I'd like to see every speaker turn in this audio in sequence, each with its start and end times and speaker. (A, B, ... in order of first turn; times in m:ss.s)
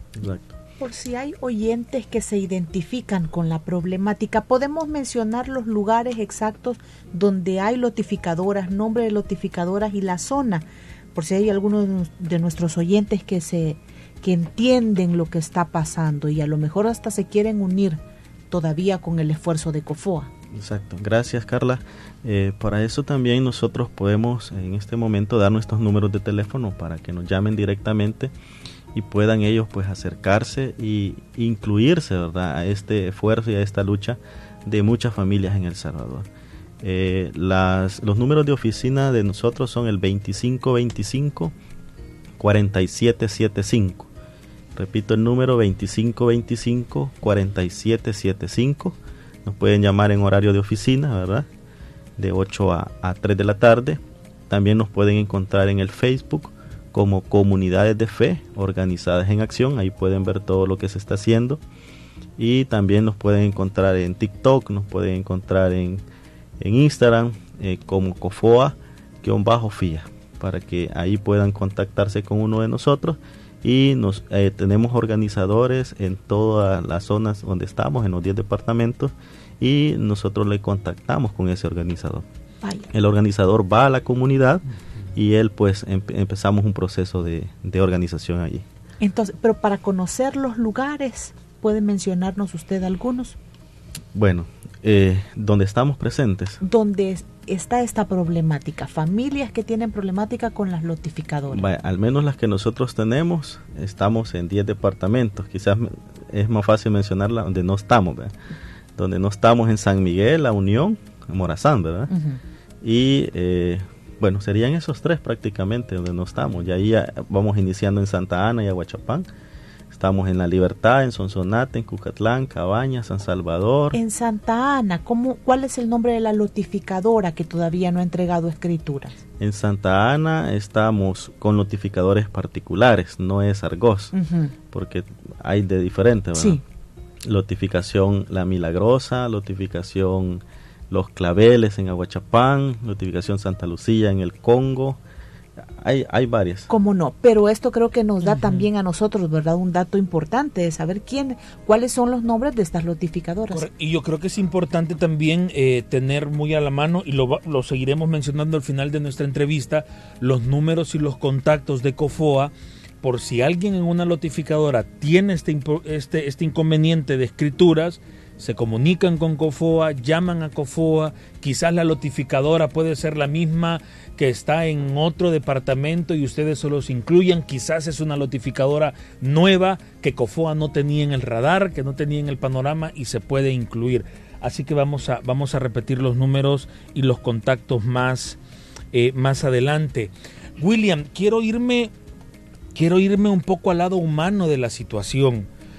0:00.2-0:00.5 A
0:00.8-0:18.0 B
0:18.5-0:20.3 B
0:20.5-0:28.3 A
0:28.9-0:36.3 A
0:36.8-0:41.5 A
0:42.4-0:44.1 A
0:44.7-0:51.5 A
0:52.2-1:01.6 A
1:02.4-1:06.0 A
1:06.6-1:22.2 A
1:22.9-1:24.6 A
1:25.1-1:28.6 A
1:29.0-1:33.4 B
1:34.1-1:36.6 A
1:36.6-1:41.7 B
1:41.5-1:48.3 A
1:49.0-1:52.1 A
1:52.1-1:52.4 B
1:52.8-1:59.3 A
1:59.9-2:04.0 A
2:03.9-2:09.2 B
2:09.4-2:14.1 A
2:14.1-2:14.5 B
2:14.7-2:16.6 A
2:16.4-2:16.6 B
2:17.2-2:25.0 A
2:25.8-2:26.7 A
2:26.7-2:33.7 B
2:28.2-2:28.7 C
2:33.5-3:08.4 C
3:08.9-3:11.9 C
3:12.7-3:15.5 C